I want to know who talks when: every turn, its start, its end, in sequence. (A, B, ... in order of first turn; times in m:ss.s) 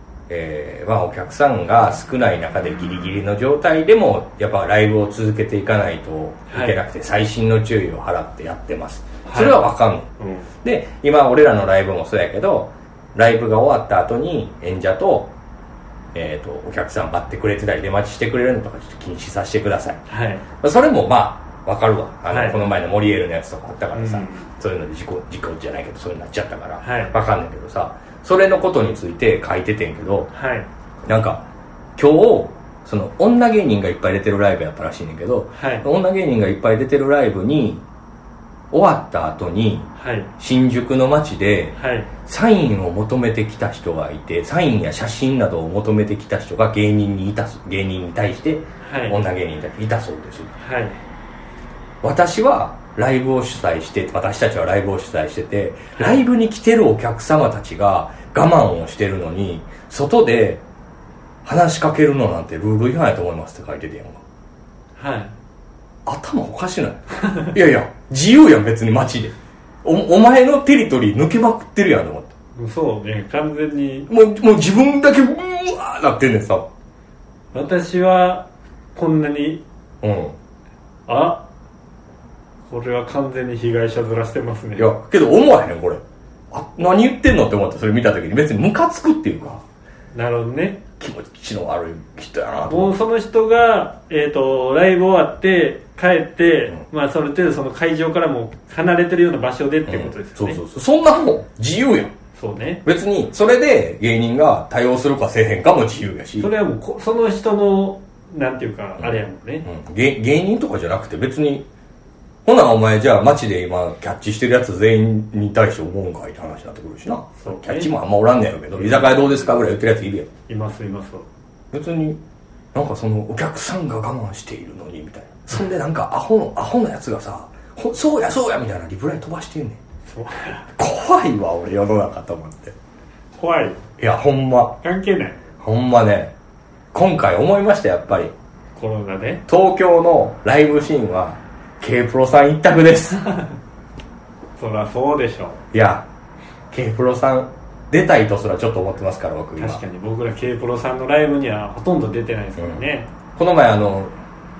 0:00.3-0:10.1 A
0:06.5-0:06.8 B
0:09.2-0:10.5 B
0:10.6-0:15.3 A
0:16.1-0:20.0 A
0:20.1-0:20.4 B
0:20.6-0:30.3 A
0:22.3-0:22.7 B
0:23.9-0:24.5 B
0:26.8-0:27.1 B
0:30.3-0:30.7 B
0:31.0-0:31.4 A
0:32.0-0:37.8 A
0:35.5-0:35.9 B
0:38.7-0:50.5 A
0:40.0-0:40.3 B
0:41.8-0:42.1 B
0:48.8-0:49.2 B
0:50.6-0:51.0 B
0:52.0-1:00.6 A
1:01.4-1:04.2 A
1:05.0-1:05.3 B
1:06.0-1:12.3 A
1:12.5-1:14.1 B
1:14.1-1:16.7 A
1:17.5-1:19.6 B
1:20.0-1:20.4 A
1:21.1-1:21.4 B
1:22.7-1:24.9 B
1:24.8-1:29.6 A
1:30.1-1:30.8 B
1:31.0-1:32.9 A
1:32.7-1:40.6 B
1:39.9-1:42.1 A
1:42.4-1:42.8 B
1:42.8-1:46.5 A
1:46.4-1:49.7 B
1:49.0-1:51.7 A
1:52.4-2:00.3 A
1:57.4-1:57.9 B
1:58.8-1:59.5 B
2:00.5-2:01.2 B
2:01.7-2:02.2 A
2:02.7-2:09.8 A
2:10.0-2:10.7 B
2:10.8-2:12.8 A
2:13.4-2:13.8 B
2:14.0-2:14.8 A
2:14.8-2:15.4 B
2:15.6-2:16.3 A
2:16.9-2:18.3 A
2:18.8-2:19.4 B
2:19.5-2:23.2 A
2:23.2-2:23.5 B
2:24.6-2:25.6 B
2:25.7-2:26.0 A
2:26.7-2:29.8 A
2:29.6-2:33.1 B
2:32.6-2:32.8 A
2:33.3-2:34.1 A